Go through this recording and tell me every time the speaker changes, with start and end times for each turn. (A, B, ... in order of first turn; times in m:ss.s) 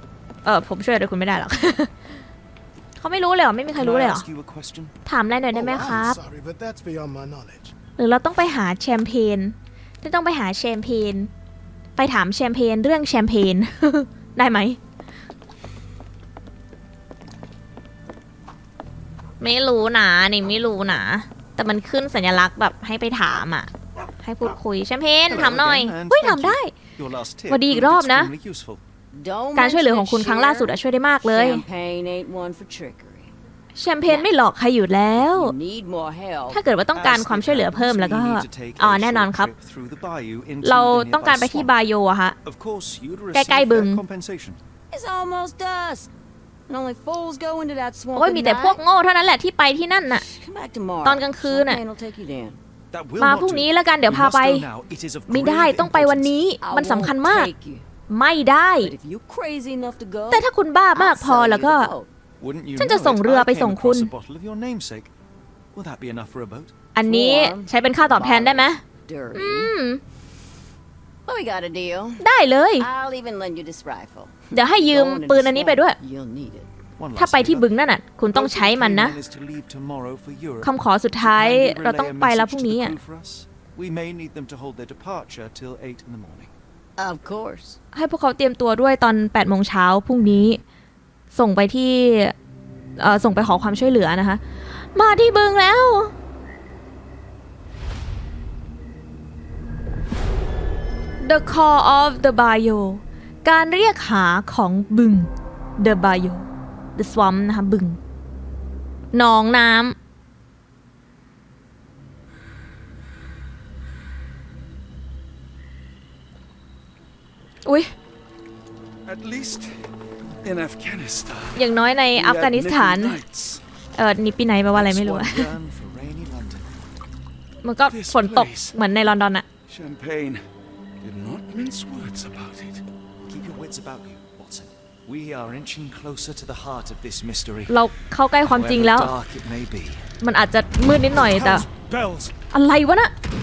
0:00.4-0:01.9 A
0:03.0-0:04.2 A
0:03.7-0:04.9 B
0:05.0-0:06.2 A
0:05.5-0:07.7 C
0:08.0-0:11.3 A
0:12.0-0:14.8 A
0:19.4-0:26.7 A
0:25.3-0:28.8 B
0:27.5-0:28.3 A
0:29.1-0:33.3 D
0:29.5-0:31.6 A
0:33.7-0:35.5 A
0:35.2-0:36.6 D
0:36.5-0:39.5 A
0:36.9-0:41.7 B
0:40.6-0:42.4 A
0:42.4-0:44.6 B
0:43.3-0:44.0 A
0:44.9-0:46.1 D
0:46.7-0:48.8 D
0:48.2-0:50.2 A
0:50.1-0:52.6 D
0:51.0-0:51.8 A
0:52.9-0:56.4 B
0:53.2-0:54.6 A
0:55.3-0:57.5 A
0:56.6-0:57.8 D
0:58.1-0:58.9 A
0:58.8-1:02.1 D
1:00.3-1:01.9 A
1:02.4-1:05.1 B
1:02.8-1:04.1 A
1:05.7-1:06.7 B
1:06.9-1:08.8 A
1:07.0-1:09.7 D
1:09.3-1:10.0 A
1:11.2-1:12.2 D
1:12.2-1:12.9 A
1:12.8-1:16.7 D
1:14.5-1:16.0 A
1:17.0-1:17.7 B
1:17.2-1:19.2 A
1:18.3-1:26.5 B
1:20.6-1:23.0 A
1:27.0-1:27.8 D
1:27.9-1:30.6 A
1:31.3-1:32.3 A
1:33.0-1:34.4 A
1:34.9-1:36.1 A
1:41.2-1:48.0 A
1:49.1-1:49.9 A
1:57.6-1:57.9 A
1:59.0-2:03.6 E
2:01.5-2:03.2 A
2:04.0-2:05.5 A
2:04.7-2:06.7 B
2:07.6-2:09.4 A
2:07.9-2:08.8 E
2:09.7-2:10.4 E
2:11.0-2:12.8 E
2:13.2-2:17.8 B
2:17.7-2:19.1 A
2:18.4-2:20.0 B
2:20.2-2:21.7 A
2:21.1-2:22.3 B
2:22.5-2:23.1 A